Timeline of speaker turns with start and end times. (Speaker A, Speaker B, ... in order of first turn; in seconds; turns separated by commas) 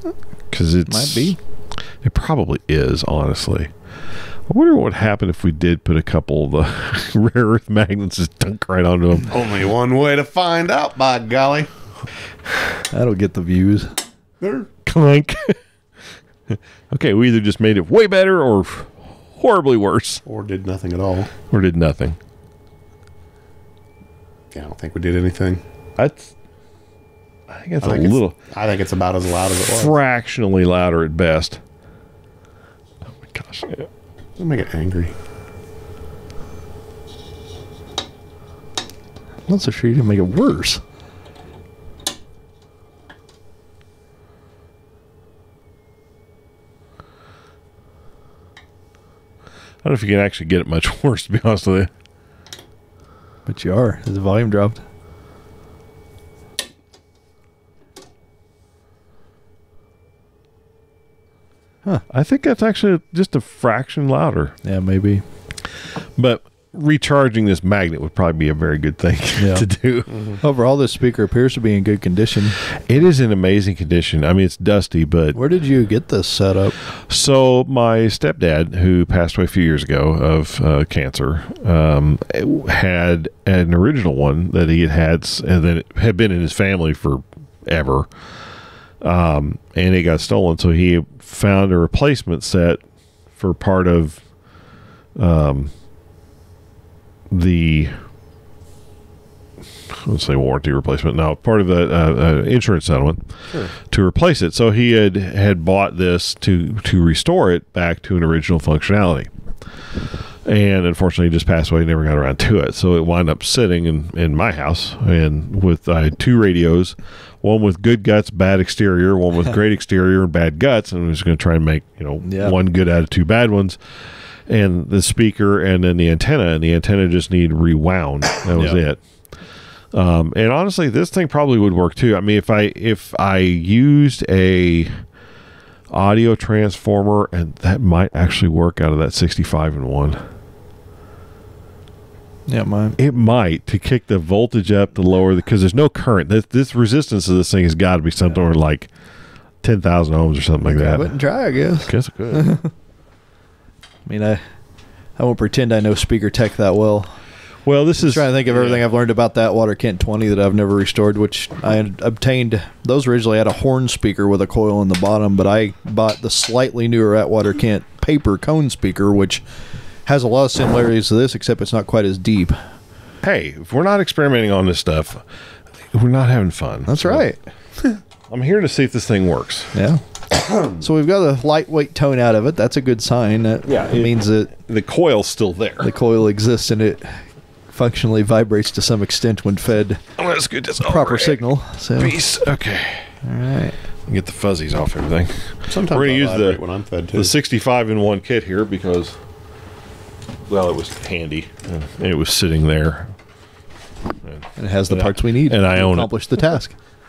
Speaker A: 0.5-3.7, Speaker B: 0.9-1.4, Speaker A: 4.5-9.5, Speaker C: 9.3-11.7, Speaker B: 12.9-13.9, Speaker C: 14.4-14.7, Speaker A: 14.8-15.6, Speaker A: 16.5-20.2, Speaker C: 20.2-21.3, Speaker A: 21.5-22.2, Speaker C: 24.5-25.6, Speaker A: 26.0-26.3, Speaker A: 27.5-28.4, Speaker C: 27.8-30.0, Speaker A: 29.7-31.6, Speaker A: 33.1-33.9, Speaker C: 34.4-35.1, Speaker B: 39.5-40.8, Speaker A: 49.8-51.9, Speaker B: 53.5-54.8, Speaker A: 62.1-64.6, Speaker B: 64.6-65.2, Speaker A: 65.7-70.2, Speaker B: 69.4-69.7, Speaker C: 70.1-70.4, Speaker B: 70.4-72.6, Speaker A: 72.7-75.4, Speaker B: 75.3-76.8, Speaker A: 77.1-88.1, Speaker A: 89.0-94.3, Speaker A: 95.2-95.7, Speaker A: 97.3-98.1, Speaker A: 99.9-109.3, Speaker A: 110.5-123.8, Speaker B: 122.2-122.6, Speaker A: 124.5-129.4, Speaker B: 128.6-128.8, Speaker A: 129.9-135.1, Speaker A: 135.9-140.2, Speaker B: 142.5-143.0, Speaker A: 143.0-148.9, Speaker A: 149.6-152.5, Speaker B: 150.7-152.7, Speaker B: 154.1-154.4, Speaker B: 155.2-157.2, Speaker A: 157.6-158.8, Speaker B: 158.0-169.4, Speaker B: 170.1-172.6, Speaker A: 173.2-175.2, Speaker A: 175.9-177.3, Speaker B: 176.9-177.4, Speaker A: 178.3-179.7, Speaker B: 179.7-180.0, Speaker B: 180.6-184.5, Speaker A: 183.6-185.9, Speaker B: 185.8-190.0, Speaker A: 190.2-193.1, Speaker B: 190.8-192.2, Speaker B: 193.2-193.8, Speaker A: 194.1-199.2, Speaker C: 195.7-197.3, Speaker A: 200.5-203.1, Speaker A: 204.2-206.5, Speaker B: 204.6-206.8